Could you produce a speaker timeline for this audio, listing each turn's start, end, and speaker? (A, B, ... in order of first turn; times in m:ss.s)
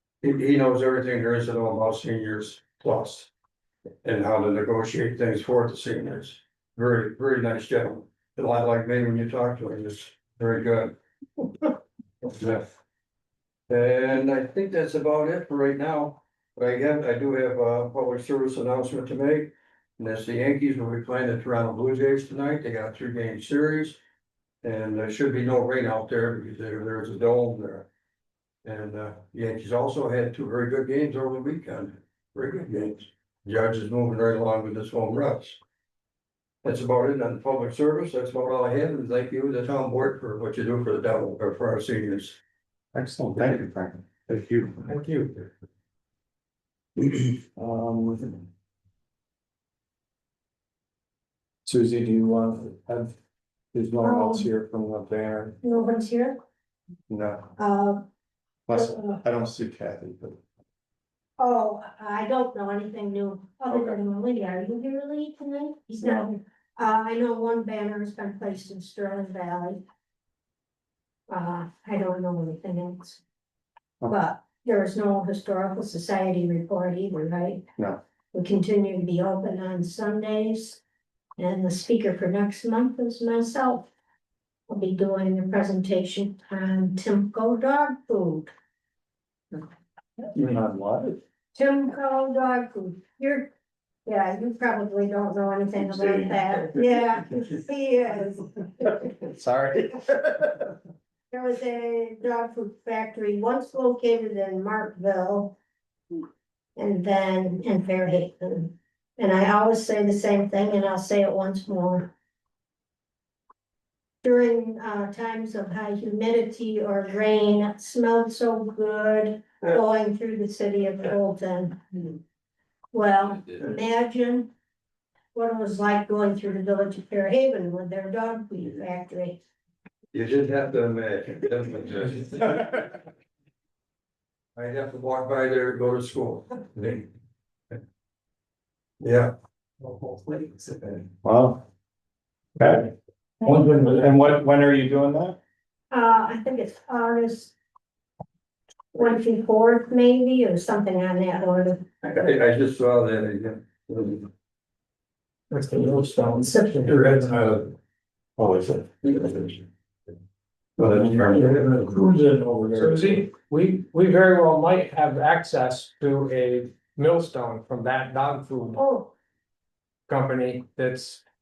0:00.2-0:03.3 A
0:04.0-0:11.0 A
0:12.2-0:12.7 A
0:13.7-0:24.0 A
0:24.6-0:27.9 A
0:28.6-0:35.6 A
0:36.6-0:42.4 A
0:42.9-0:44.0 B
0:44.9-0:45.5 A
0:47.6-0:48.4 B
0:51.6-0:53.1 B
0:53.7-0:55.6 B
0:54.0-0:54.5 C
0:55.6-0:56.4 C
0:57.1-0:57.5 B
0:57.6-0:58.1 C
0:58.7-1:00.4 B
0:58.7-0:59.2 C
1:01.4-1:09.8 C
1:11.3-1:13.2 C
1:14.1-1:17.7 C
1:18.3-1:20.8 C
1:21.4-1:23.9 C
1:24.7-1:28.5 C
1:30.3-1:31.2 B
1:31.5-1:33.5 C
1:34.1-1:39.1 C
1:41.3-1:45.6 C
1:46.8-1:52.1 C
1:54.2-2:02.2 C
2:02.9-2:04.5 C
2:05.4-2:09.4 C
2:10.1-2:12.8 A
2:14.6-2:17.1 A
2:19.0-2:19.3 A
2:21.2-2:21.6 B
2:22.6-2:22.9 B
2:23.4-2:25.4 B
2:25.9-2:27.6 C
2:28.9-2:31.9 C
2:32.0-2:34.3 A
2:35.5-2:37.5 D
2:36.8-2:37.7 A
2:38.4-2:38.9 B
2:39.0-2:39.4 A
2:40.8-2:41.8 A
2:41.0-2:43.3 B
2:42.8-2:48.8 D
2:48.8-2:49.1 C
2:50.1-2:51.2 D